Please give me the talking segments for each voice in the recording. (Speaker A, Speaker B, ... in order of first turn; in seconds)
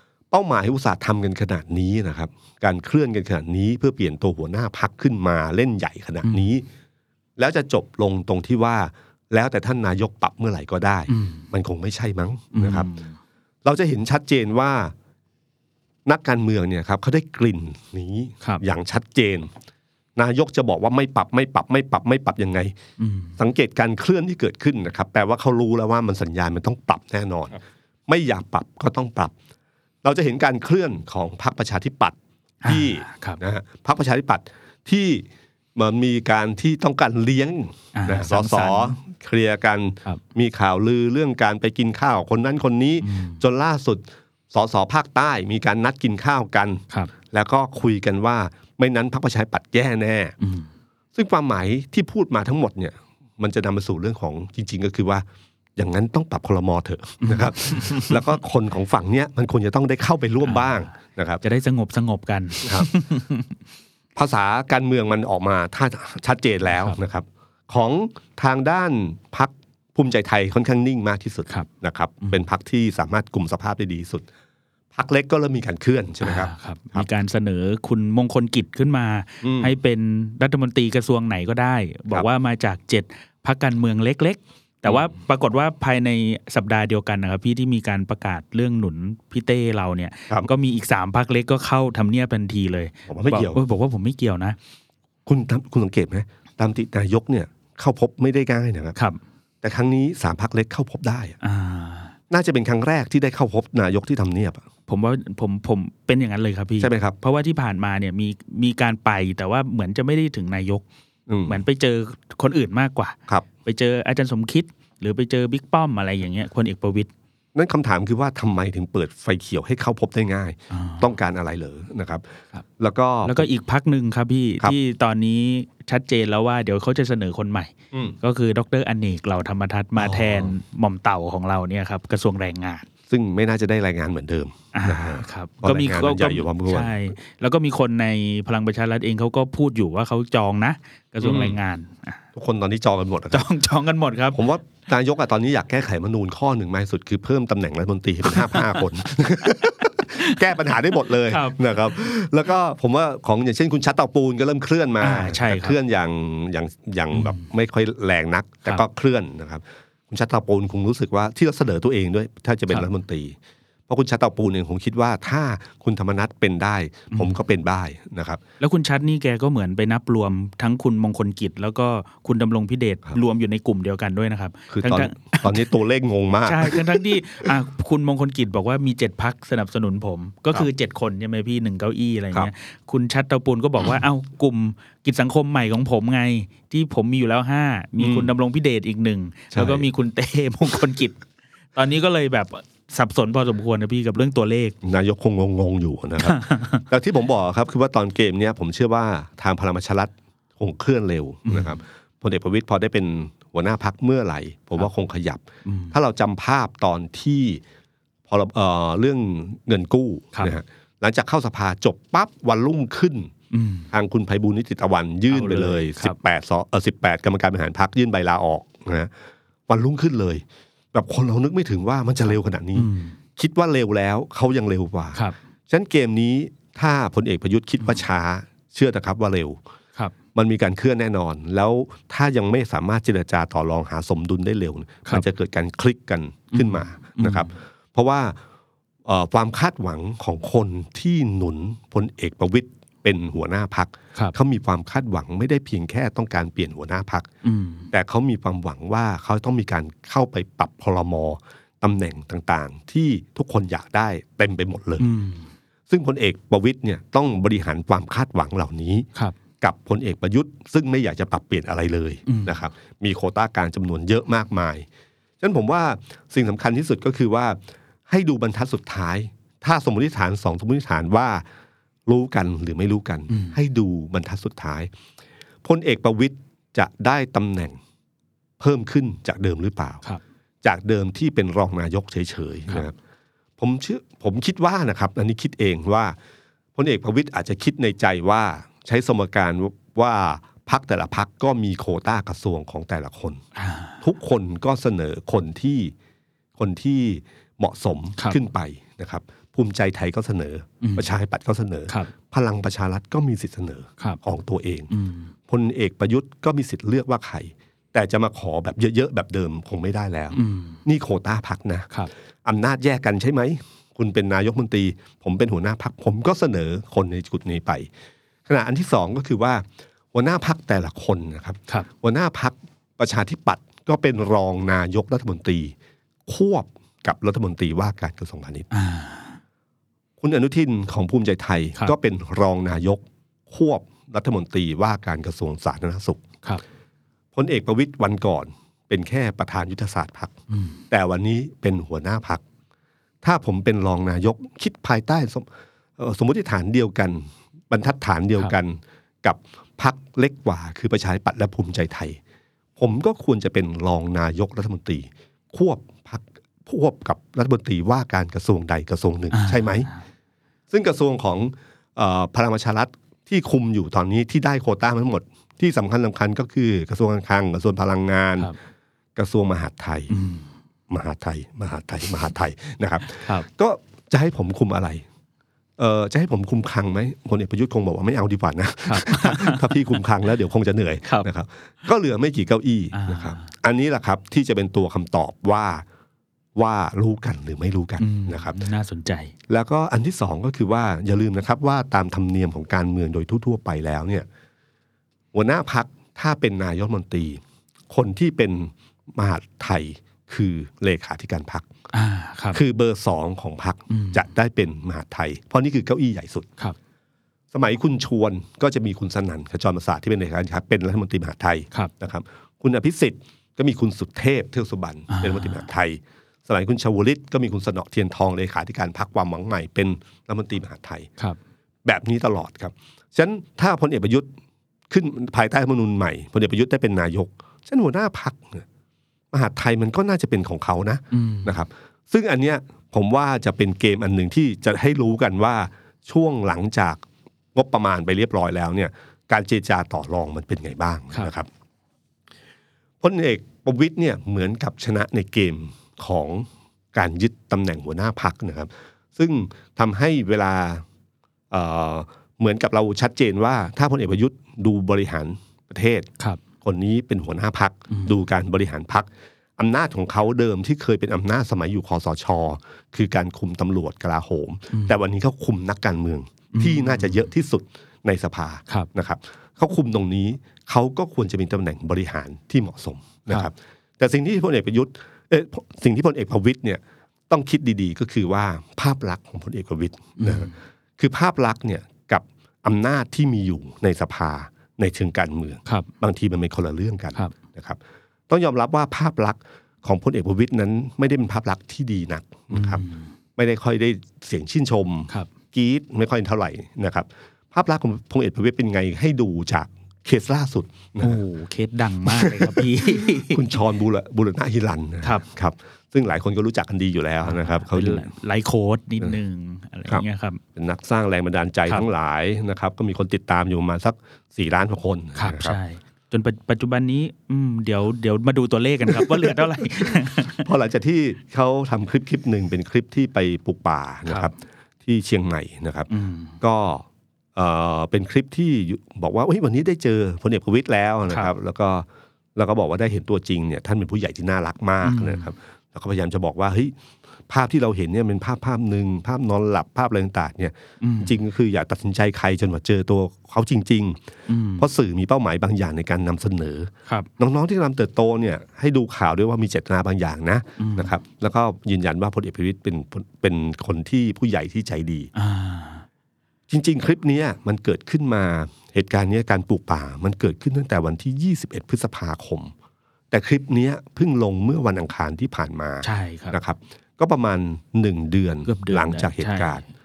Speaker A: 0.3-6.7, 7.4-12.9, 13.6-14.9, 16.1-19.5, 20.2-22.7, 23.4-29.3, 30.0-50.4, 51.1-55.2, 55.8-61.4, 62.6-62.9, 64.2-74.3, 74.9-77.1, 79.4-79.7, 93.1-93.6, 95.3-99.0, 99.6-101.4, 102.3-104.6, 106.8-107.2, 111.3-111.6, 117.5-122.2, 122.8-123.5, 130.0-130.5, 133.1-137.0, 141.2-141.6, 142.3-143.5, 144.3-163.4, 163.9-168.4, 174.7-177.5, 188.0-188.3, 189.5-189.9, 194.8-207.6, 208.3-213.3, 213.9-219.1, 219.7-229.6, 230.3-238.4, 239.1-247.3, 247.9-255.1, 255.9-259.1, 259.6-264.9, 265.4-271.4, 272.1-274.9, 275.6-277.8, 278.6-280.0, 280.6-282.9, 283.6-286.2, 286.8-293.4, 294.0-295.9, 296.6-304.9, 305.5-311.9, 312.4-317.9, 318.5-325.8, 326.3-328.7, 330.2-336.3, 337.3-340.4, 340.9-342.4, 343.2-345.5, 346.0-352.2, 352.8-359.9, 360.7-368.5, 369.2-370.1, 370.9-375.1, 375.8-385.9, 386.6-388.6, 389.5-394.3, 395.3-401.7, 402.5-406.5, 407.5-421.1, 421.8-424.3, 424.9-428.6, 429.3-437.0, 437.5-441.5, 443.0-450.9, 451.5-456.1, 456.6-492.8, 493.4-501.2, 502.1-508.1, 510.6-515.6, 518.9-525.9, 526.4-536.8, 537.3-544.0, 544.6-555.1, 556.5-562.5, 563.1-569.6
Speaker B: 6.2-6.5, 11.1-11.5, 12.5-13.2, 23.0-23.4, 32.6-33.4, 38.0-39.0, 43.0-43.4, 50.4-50.7, 57.2-58.2, 60.5-60.7, 61.4-63.5, 76.2-94.6, 101.4-102.2, 104.9-110.8, 111.5-117.1, 120.7-121.1, 123.2-132.9, 134.7-142.2, 143.3-144.4, 148.3-148.8, 149.5-150.4, 151.1-151.6, 155.0-155.8, 157.1-157.4, 168.6-175.7, 176.4-191.2, 191.8-194.8, 196.2-196.9, 201.5-201.8, 205.7-205.9, 213.5-213.9, 215.3-216.2, 222.8-223.2, 236.5-237.5, 247.4-247.9, 255.0-255.5, 262.3-262.6, 273.3-273.6, 293.6-294.0, 300.8-301.1, 304.9-305.3, 310.3-310.8, 328.7-329.4, 340.5-340.8, 359.3-360.0, 370.1-370.5, 378.9-379.7, 382.9-383.5, 388.0-389.3, 401.9-402.6, 403.9-404.2, 415.1-415.6, 431.1-431.6, 466.5-467.2, 480.2-480.5, 492.5-493.1, 501.0-503.5, 505.0-505.3, 507.2-510.4, 515.2-520.5, 524.1-524.3, 525.9-526.4, 534.8-535.3, 540.8-541.2, 544.3-544.7, 550.6-550.9, 555.1-555.9, 565.8-566.4, 568.5-569.6